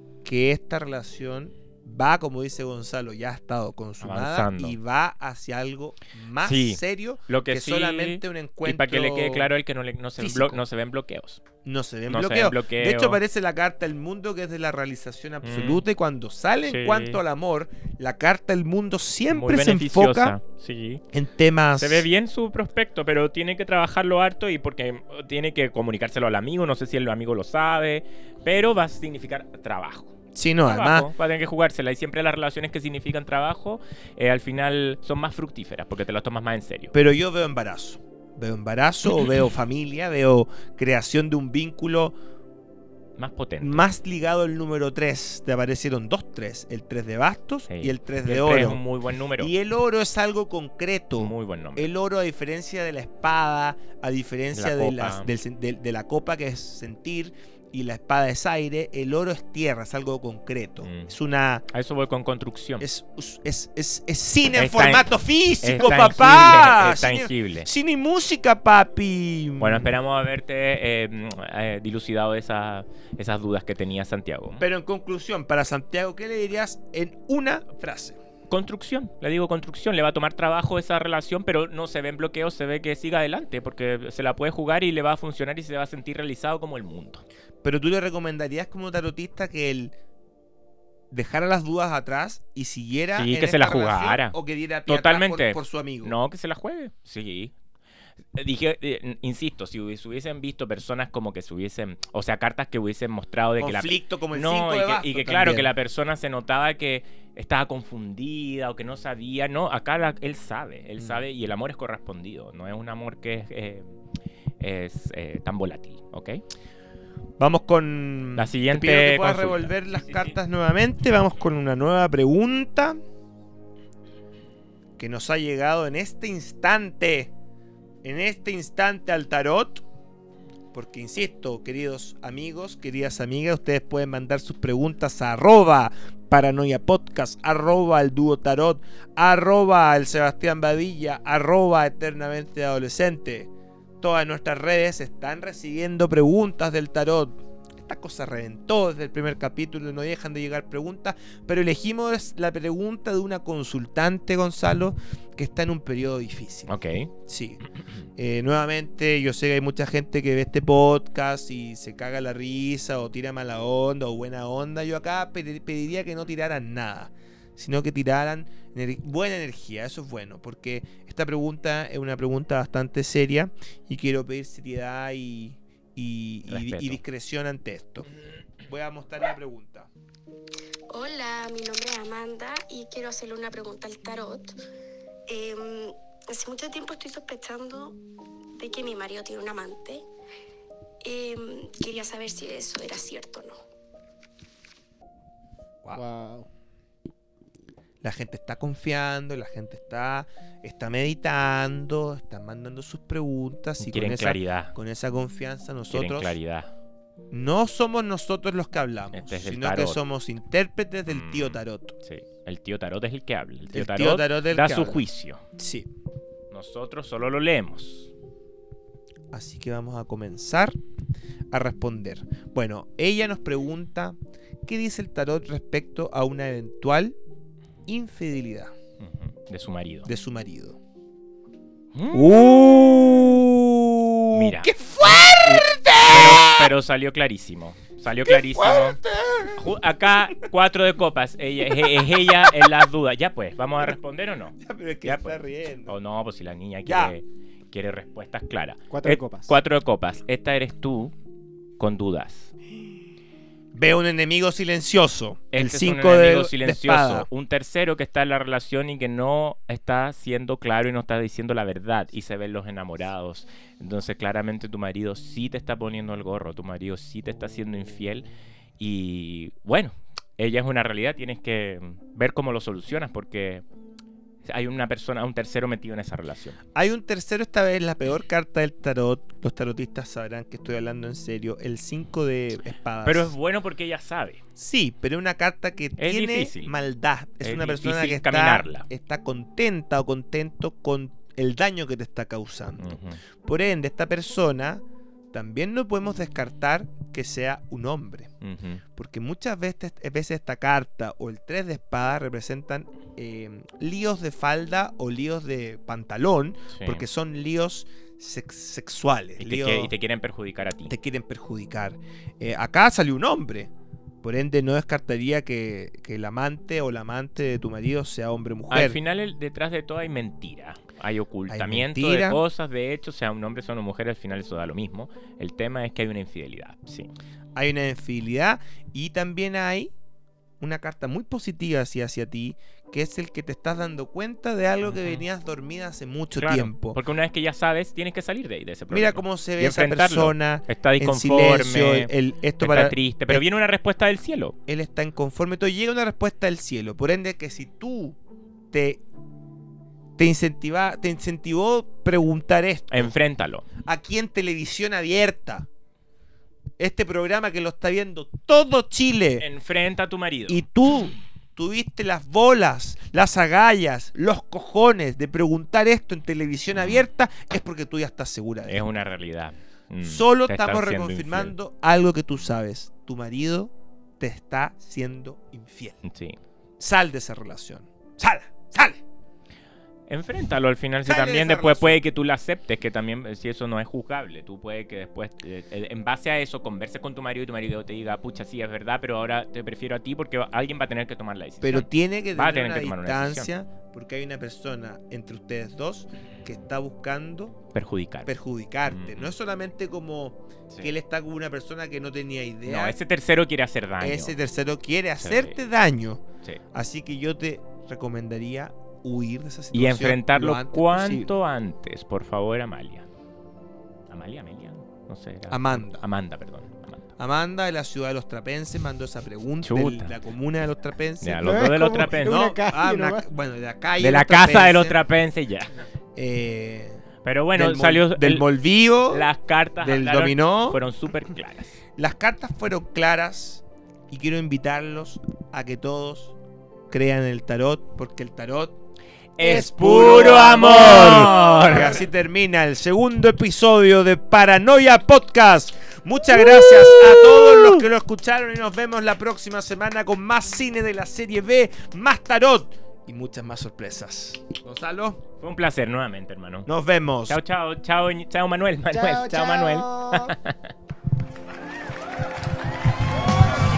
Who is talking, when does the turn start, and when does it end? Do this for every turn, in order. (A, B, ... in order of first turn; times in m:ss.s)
0:00.2-0:09.5 A
0:04.0-0:04.8 B
0:06.4-0:11.4 B
0:10.2-0:10.6 A
0:11.6-0:20.4 A
0:12.1-0:13.2 B
0:15.4-0:15.8 B
0:16.6-0:17.2 B
0:19.3-0:21.0 B
0:21.1-0:22.1 A
0:21.8-0:36.9 B
0:30.3-0:31.1 A
0:36.9-0:42.2 A
0:43.2-0:43.9 B
0:43.6-0:48.8 A
0:47.7-0:49.5 B
0:49.4-1:01.6 A
0:51.2-0:51.9 B
0:54.5-0:55.3 B
1:00.8-1:01.1 B
1:01.7-1:02.9 B
1:02.8-1:09.9 A
1:04.6-1:05.1 B
1:05.6-1:07.7 B
1:09.6-1:14.6 B
1:14.6-1:18.2 A
1:18.5-1:27.2 B
1:27.6-1:29.9 A
1:31.1-1:36.2 A
1:33.2-1:37.5 B
1:38.4-1:53.9 B
1:43.6-1:45.7 A
1:54.6-1:56.4 B
1:57.4-2:03.0 A
1:58.4-2:00.3 B
2:05.0-2:07.3 A
2:08.0-2:09.8 A
2:10.7-2:36.7 A
2:36.7-2:37.1 B
2:37.2-2:37.6 A
2:38.2-2:58.1 A
2:56.5-2:57.0 B
2:58.6-2:59.9 A
3:00.9-3:04.6 C
3:05.3-3:08.0 C
3:08.6-3:10.0 C
3:11.0-3:13.6 C
3:16.0-3:16.5 D
3:18.0-3:26.4 A
3:23.8-3:24.8 B
3:25.9-3:26.7 B
3:27.3-3:32.0 A
3:29.1-3:30.0 B
3:31.1-3:35.4 B
3:33.7-3:35.0 A
3:35.6-3:35.9 A
3:36.5-3:38.1 B
3:39.3-3:40.8 A
3:41.5-3:47.2 A
3:47.9-3:48.7 A
3:49.0-3:50.1 B
3:50.0-3:50.8 A
3:52.0-3:53.0 B
3:52.1-3:56.7 A
3:54.3-3:59.0 B
3:58.2-3:59.7 A
3:59.6-4:11.1 B
4:01.7-4:02.5 A
4:04.6-4:06.0 A
4:06.9-4:07.2 A
4:08.9-4:09.6 D
4:11.8-4:12.5 B
4:13.7-4:17.3 A
4:15.5-4:28.3 B
4:28.8-4:33.6 B
4:34.4-4:36.6 B
4:36.8-4:43.4 A
4:43.0-4:44.4 B
4:44.6-4:58.3 A
4:46.0-4:46.7 B
4:47.4-4:48.9 B
4:52.8-4:53.2 B
4:58.4-4:58.8 B
4:59.0-5:09.9 A
5:06.7-5:07.0 B
5:09.4-5:11.0 B
5:10.9-5:13.7 A
5:14.2-5:19.0 A
5:18.7-5:27.1 B
5:21.5-5:22.4 A
5:27.6-5:29.9 A
5:30.6-5:37.0 A
5:34.8-5:35.2 B
5:36.4-5:44.6 B
5:38.9-5:43.4 A
5:44.7-5:48.2 A
5:48.7-5:49.0 A
5:50.2-5:53.1 A
5:52.9-5:53.7 B
5:53.8-5:55.7 A
5:56.8-5:59.5 A
5:59.4-6:00.6 B
6:00.5-6:08.8 A
6:06.8-6:07.0 B
6:08.7-6:11.6 B
6:10.0-6:16.0 A
6:16.0-6:16.4 B
6:16.8-6:19.0 A
6:20.1-6:33.5 B
6:21.0-6:22.0 A
6:31.6-6:37.6 A
6:37.7-6:38.3 B
6:38.3-6:43.0 A
6:38.9-6:39.3 B
6:42.6-6:44.4 B
6:44.0-6:51.3 A
6:45.2-6:45.6 B
6:49.7-6:53.1 B
6:54.1-6:57.1 B
6:55.5-6:56.0 A
6:57.2-7:05.0 A
6:59.6-7:00.2 B
7:01.2-7:02.4 B
7:01.4-7:03.3 D
7:04.0-7:05.8 B
7:06.2-7:09.3 A
7:07.2-7:08.5 B
7:09.1-7:11.8 B
7:09.8-7:10.8 A
7:12.0-7:16.4 A
7:16.9-7:18.8 A
7:19.4-7:22.0 B
7:19.4-7:35.2 A
7:35.4-7:36.7 B
7:36.7-7:37.4 A
7:37.3-7:40.6 B
7:38.9-7:40.4 D